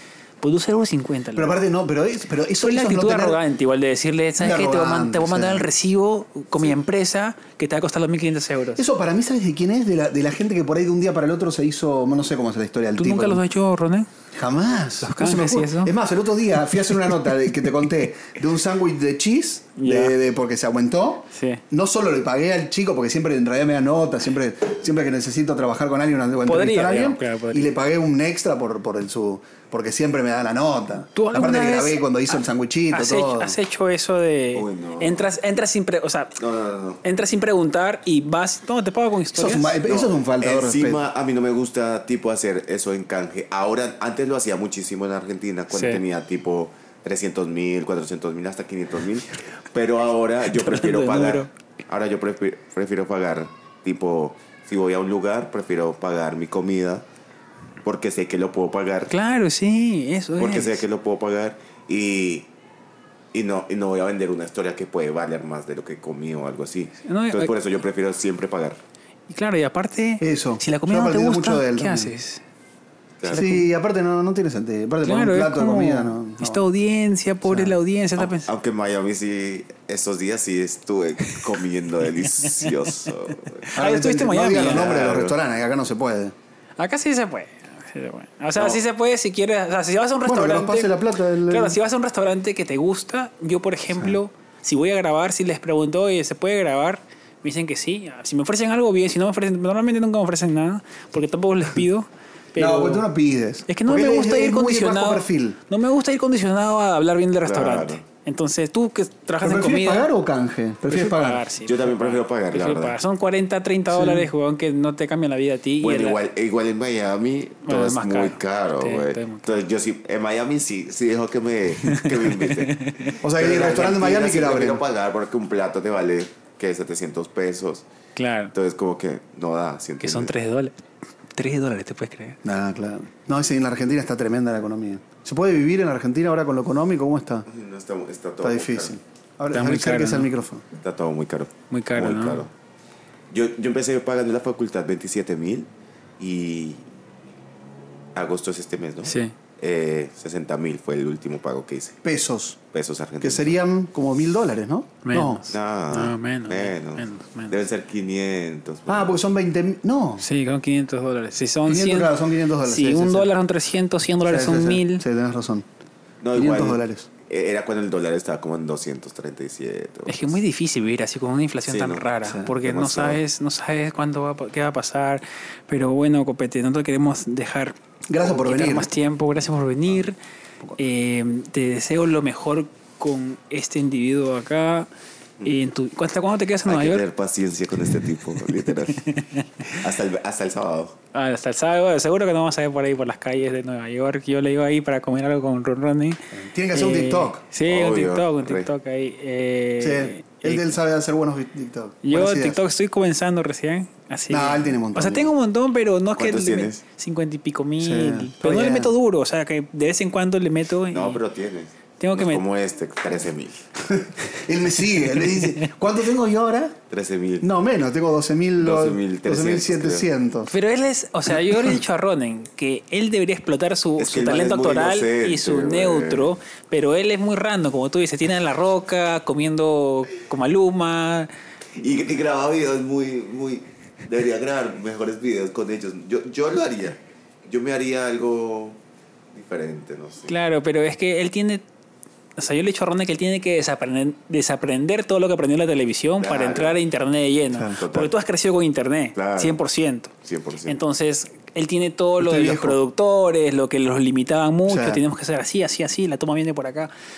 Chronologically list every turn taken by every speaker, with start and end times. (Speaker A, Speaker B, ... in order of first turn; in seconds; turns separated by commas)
Speaker A: 0.4-1.6, Speaker B: 1.3-3.4, Speaker A: 2.6-8.8, Speaker B: 4.4-5.7, Speaker B: 8.8-13.4, Speaker A: 13.0-14.1, Speaker B: 14.3-33.6, Speaker A: 15.0-15.9, Speaker A: 19.8-20.1, Speaker A: 21.3-21.6, Speaker A: 26.4-27.7, Speaker A: 31.1-36.4, Speaker C: 34.5-35.3, Speaker C: 36.4-37.0, Speaker A: 37.0-39.8, Speaker B: 39.4-41.0, Speaker C: 39.9-57.0, Speaker A: 45.7-46.0, Speaker A: 50.5-51.5, Speaker C: 57.8-59.1, Speaker A: 59.1-60.8, Speaker C: 60.4-62.5, Speaker C: 63.3-68.8, Speaker A: 67.0-67.5, Speaker A: 69.3-72.4, Speaker B: 70.2-72.1, Speaker C: 73.2-73.5, Speaker A: 73.3-73.7, Speaker B: 73.3-76.6, Speaker A: 75.0-78.5, Speaker B: 77.4-77.8, Speaker C: 78.2-83.7, Speaker A: 82.4-82.9, Speaker A: 83.6-84.9, Speaker B: 83.7-86.3, Speaker C: 84.5-85.3, Speaker A: 86.8-90.9, Speaker C: 88.5-88.8, Speaker B: 90.2-91.8, Speaker A: 91.5-103.1, Speaker B: 102.6-105.6, Speaker A: 103.7-110.1, Speaker C: 107.4-108.0, Speaker B: 109.4-111.4, Speaker A: 110.9-116.2, Speaker C: 111.6-113.0, Speaker B: 113.9-114.3, Speaker C: 115.8-127.8, Speaker A: 117.7-119.5, Speaker A: 121.8-123.2, Speaker B: 123.2-124.8, Speaker A: 128.2-128.5, Speaker C: 128.5-130.3, Speaker A: 130.0-130.8, Speaker A: 131.3-132.4, Speaker B: 132.4-137.5, Speaker C: 137.5-139.0, Speaker B: 138.4-140.6, Speaker A: 139.5-140.3, Speaker C: 140.7-142.5, Speaker A: 141.7-142.4, Speaker C: 143.3-146.8, Speaker C: 148.1-152.0, Speaker A: 149.0-149.3, Speaker B: 152.0-152.6, Speaker C: 152.7-153.6, Speaker B: 153.2-155.4, Speaker A: 155.0-157.5, Speaker C: 155.5-159.2, Speaker B: 158.9-160.2, Speaker A: 160.2-162.1, Speaker B: 161.7-163.3, Speaker A: 162.6-165.0, Speaker B: 164.3-165.6, Speaker C: 166.2-170.4, Speaker B: 166.3-167.1, Speaker A: 170.1-180.2, Speaker C: 171.7-173.2, Speaker B: 178.1-178.9, Speaker A: 180.8-184.9, Speaker A: 185.4-187.0, Speaker C: 186.7-189.0, Speaker A: 188.4-189.7, Speaker C: 189.7-190.9, Speaker A: 191.1-200.8, Speaker B: 196.3-197.4, Speaker C: 197.6-198.7, Speaker B: 199.8-202.6, Speaker A: 202.0-211.2, Speaker B: 204.3-205.3, Speaker C: 206.2-206.8, Speaker B: 207.8-208.9, Speaker C: 210.9-213.7, Speaker A: 212.0-212.4, Speaker B: 214.4-216.8, Speaker A: 215.2-215.7, Speaker C: 216.9-217.5, Speaker B: 217.4-220.5, Speaker C: 218.6-220.1, Speaker A: 220.5-231.3, Speaker C: 224.0-226.3, Speaker C: 231.8-238.8, Speaker C: 239.3-240.3, Speaker A: 240.3-241.6, Speaker A: 242.4-250.1, Speaker C: 246.2-246.8, Speaker C: 247.8-248.1, Speaker C: 249.1-249.6, Speaker C: 250.2-250.8, Speaker A: 250.7-256.9, Speaker B: 252.2-252.8, Speaker B: 254.7-255.0